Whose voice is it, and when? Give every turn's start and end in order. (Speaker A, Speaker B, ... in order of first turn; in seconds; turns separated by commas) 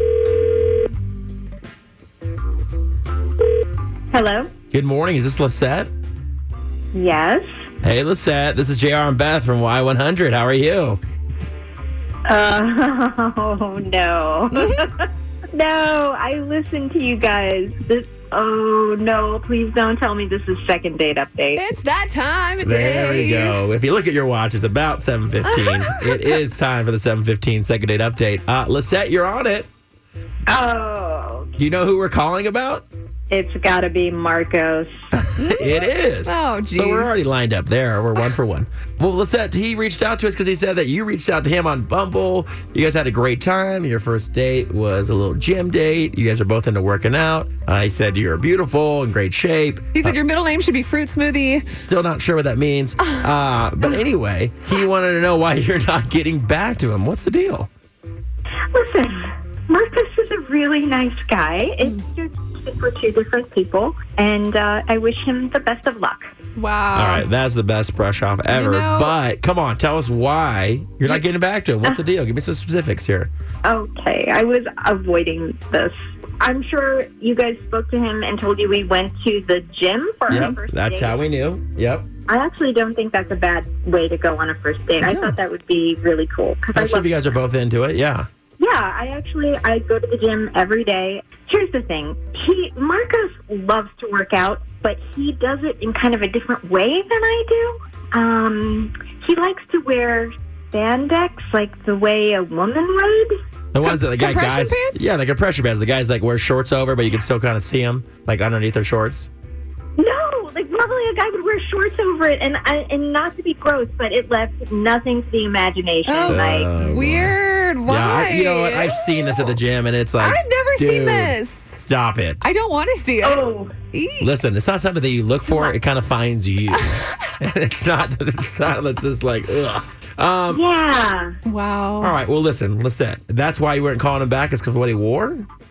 Speaker A: 4.1-4.5, Speaker B: 4.7-5.9, Speaker A: 6.9-7.5, Speaker B: 7.8-11.0, Speaker A: 12.3-21.7, Speaker C: 14.6-14.8, Speaker C: 21.6-23.6, Speaker B: 22.6-29.7, Speaker A: 30.5-31.5, Speaker B: 31.6-32.9, Speaker A: 33.3-34.9, Speaker B: 35.2-50.2, Speaker C: 35.4-37.2, Speaker C: 50.0-51.7, Speaker B: 51.8-57.7, Speaker A: 58.7-66.3, Speaker C: 66.6-67.2, Speaker B: 67.0-73.3, Speaker C: 68.5-69.1, Speaker A: 73.7-81.2, Speaker B: 80.3-82.1, Speaker A: 82.3-87.3, Speaker B: 85.0-85.4, Speaker B: 86.7-88.3, Speaker A: 88.6-103.3, Speaker B: 103.7-109.3, Speaker C: 103.8-105.0, Speaker A: 110.0-116.7, Speaker C: 116.0-119.5, Speaker B: 116.3-117.3, Speaker B: 117.9-122.4, Speaker C: 120.2-121.8, Speaker C: 122.4-124.3, Speaker A: 123.2-123.8, Speaker B: 124.2-130.6, Speaker A: 130.5-131.4, Speaker C: 131.4-132.2, Speaker B: 132.0-135.5